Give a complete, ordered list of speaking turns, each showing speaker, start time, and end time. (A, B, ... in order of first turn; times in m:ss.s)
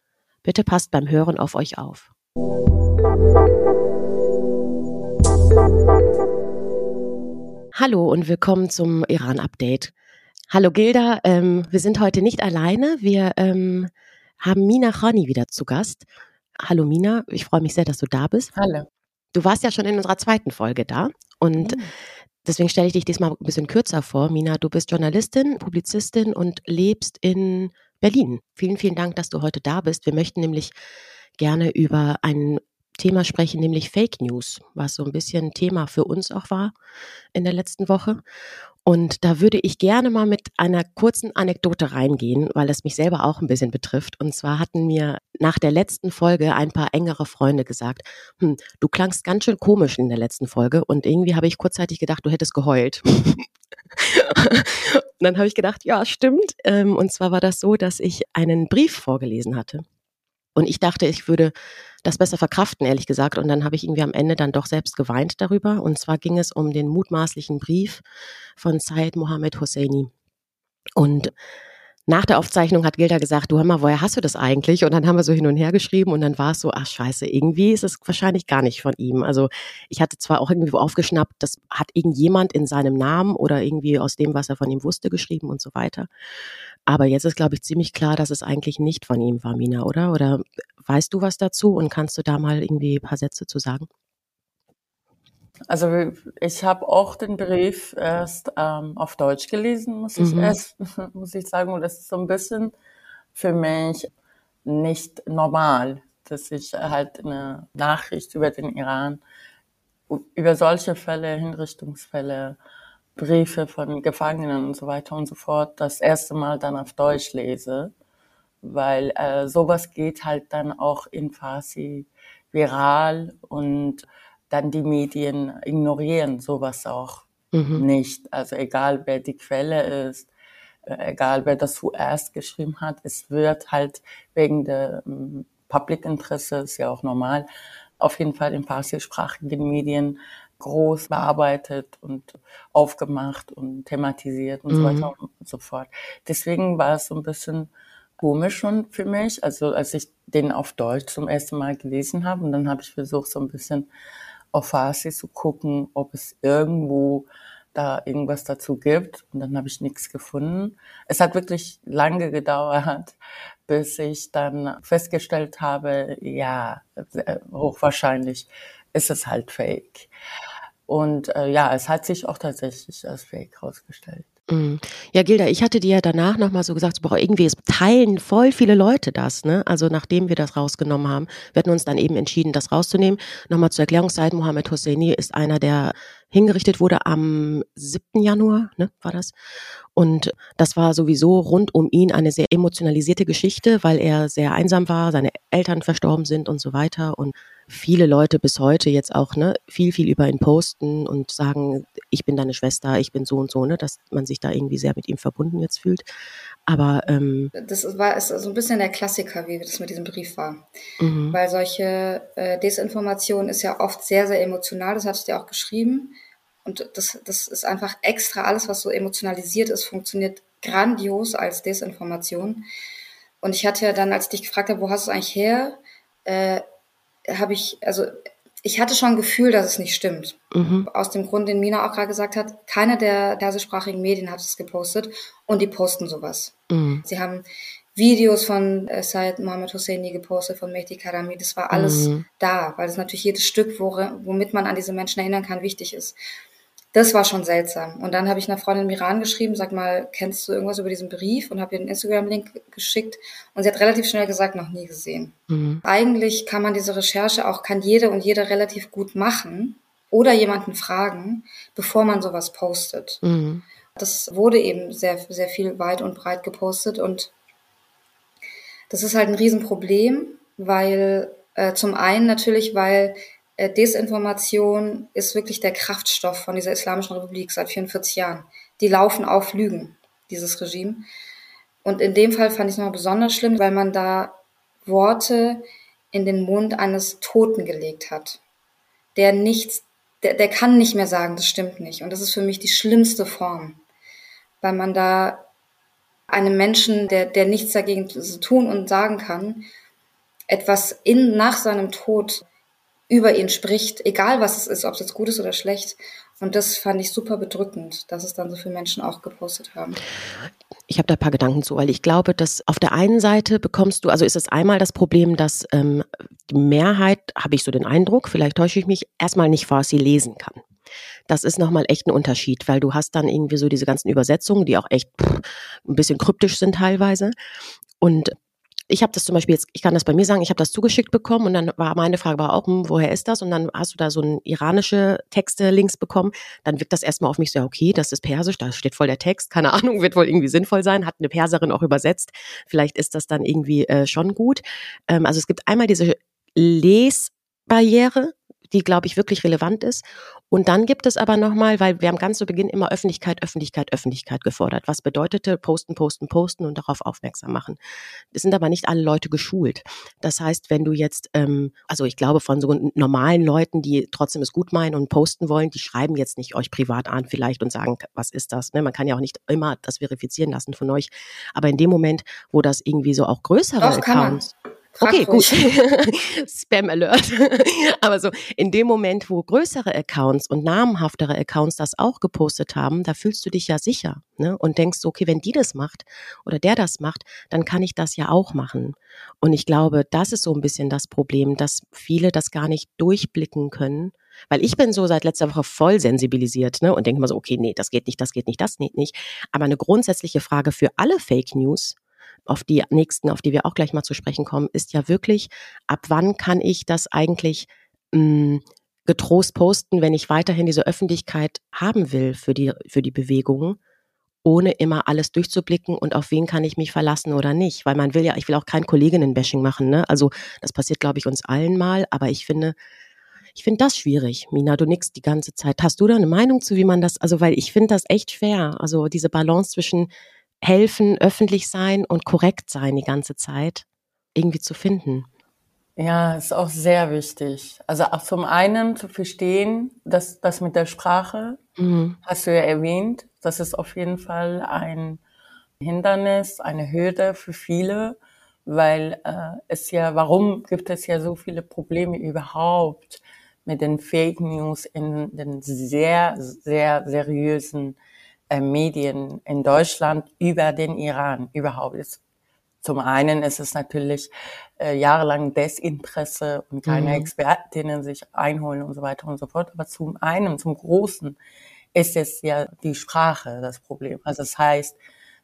0:00.4-0:02.1 A
0:07.8-0:09.9 A
0:10.5-0:16.1 A
0:16.6-0:18.5 A
0:18.6-0:18.9 B
0:19.3-0:21.8 A
0:21.6-0:21.9 B
0:22.4-0:30.7 A
0:31.4-0:36.7 A
0:37.3-0:38.2 A
0:38.8-0:59.8 A
1:00.6-1:01.5 A
1:02.0-1:08.0 A
1:08.6-1:10.1 A
1:11.0-1:11.3 A
1:12.1-1:26.1 A
1:26.9-1:33.9 A
1:35.7-1:42.7 B
1:40.2-1:40.6 A
1:43.4-1:44.1 B
1:44.6-1:49.2 B
1:50.1-1:52.6 B
1:53.2-1:57.9 B
1:58.6-2:10.3 B
2:07.5-2:07.8 A
2:10.9-2:17.5 B
2:18.0-2:33.9 B
2:24.7-2:25.1 A
2:34.5-2:43.2 B
2:43.7-2:50.1 B
2:50.9-2:54.3 B
2:54.5-3:09.3 A
3:10.0-3:26.1 A
3:26.7-3:27.5 A
3:27.6-3:30.7 C
3:31.0-3:31.4 A
3:31.3-3:42.7 C
3:43.4-3:46.6 C
3:47.3-4:06.2 C
3:50.5-3:50.9 A
3:56.7-3:57.0 A
4:01.7-4:02.2 A
4:06.9-4:23.2 C
4:15.5-4:15.8 A
4:23.2-4:23.6 A
4:24.0-4:27.3 C
4:28.9-4:41.1 C
4:41.8-4:48.4 C
4:49.2-4:53.8 C
4:54.6-4:55.5 C
4:56.3-4:59.7 C
5:00.5-5:02.4 C
5:03.1-5:10.0 C
5:10.9-5:20.6 A
5:21.3-5:27.4 A
5:28.0-5:28.4 A
5:28.9-5:57.8 A
5:58.3-6:14.5 A
6:13.8-6:15.7 C
6:15.0-6:42.0 A
6:42.5-6:53.8 A
6:54.4-7:02.8 A
7:03.6-7:10.1 A
7:10.6-7:15.3 A
7:16.0-7:21.6 B
7:21.8-7:22.2 A
7:22.2-7:25.2 B
7:25.8-7:38.0 B
7:38.5-7:42.2 B
7:42.8-7:51.4 B
7:46.9-7:47.3 A
7:51.9-7:55.0 B